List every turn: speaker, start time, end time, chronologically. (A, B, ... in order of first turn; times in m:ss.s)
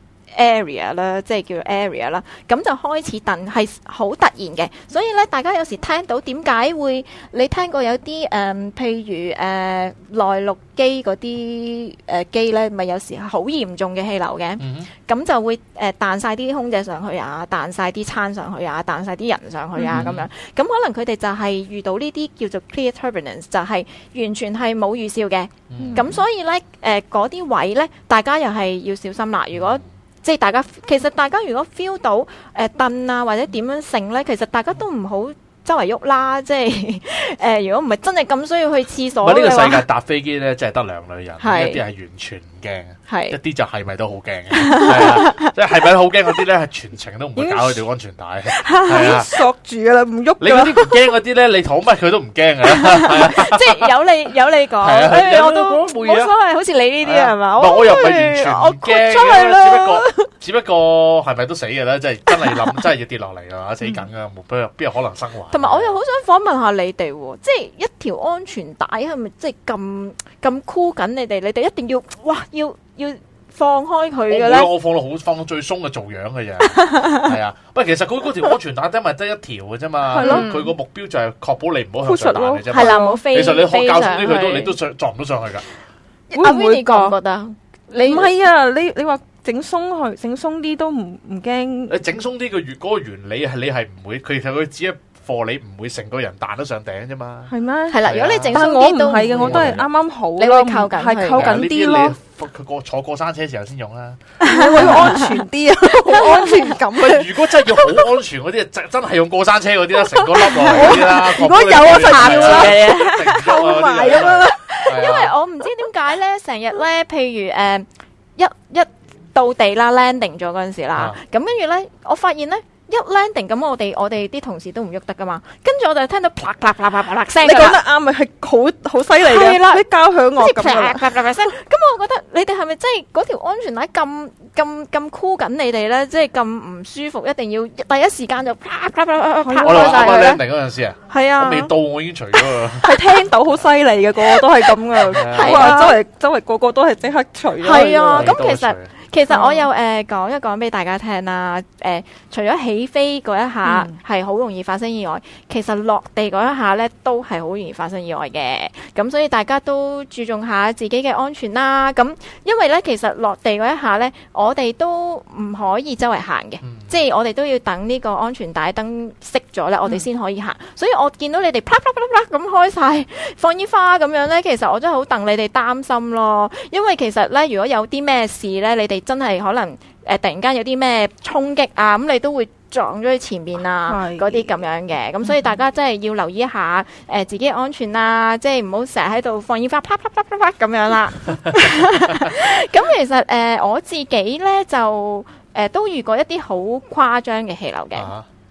0:00.3-0:39.8 A
0:14.6-0:14.9 B
0:19.8-0:20.1 C
0:19.9-0:20.3 B
0:25.7-0:26.1 B
0:25.8-0:26.1 C
0:29.5-0:29.8 B
0:39.2-0:49.3 B
0:41.4-0:41.8 A
0:43.1-0:43.3 A
0:44.5-0:45.5 A
0:47.4-0:47.8 C
0:48.5-0:51.0 C
0:50.4-0:53.8 B
0:52.8-1:00.2 A
0:54.8-0:56.3 B
0:57.0-1:06.0 B
1:05.5-1:14.7 A
1:14.3-1:25.6 B
1:16.8-1:17.3 A
1:20.0-1:20.5 C
1:20.2-1:20.7 A
1:22.0-1:23.2 C
1:22.7-1:24.7 A
1:26.3-1:27.1 C
1:26.3-1:28.3 A
1:28.0-1:32.0 C
1:31.9-1:37.5 B
1:37.5-1:42.2 C
1:37.9-1:39.8 A
1:38.0-1:38.6 B
1:39.3-1:39.9 B
1:40.4-1:41.5 A
1:41.4-1:44.2 B
1:44.4-1:48.0 C
1:44.4-1:45.3 A
1:44.8-1:45.2 B
1:46.1-1:46.7 A
1:46.9-1:55.3 B
1:50.3-1:55.0 C
1:50.6-1:51.1 A
1:51.8-1:53.4 A
1:54.7-2:07.8 A
2:07.4-2:11.4 C
2:09.2-2:09.8 A
2:10.4-2:20.4 A
2:19.4-2:20.4 C
2:19.6-2:23.0 B
2:21.1-2:21.7 A
2:22.8-2:28.3 C
2:25.1-2:25.8 B
2:25.1-2:26.0 A
2:27.6-3:18.1 A
2:27.6-2:28.9 B
2:29.3-2:29.7 C
2:33.6-2:34.0 C
2:46.6-2:46.9 B
3:03.9-3:04.4 C
3:17.9-3:18.2 B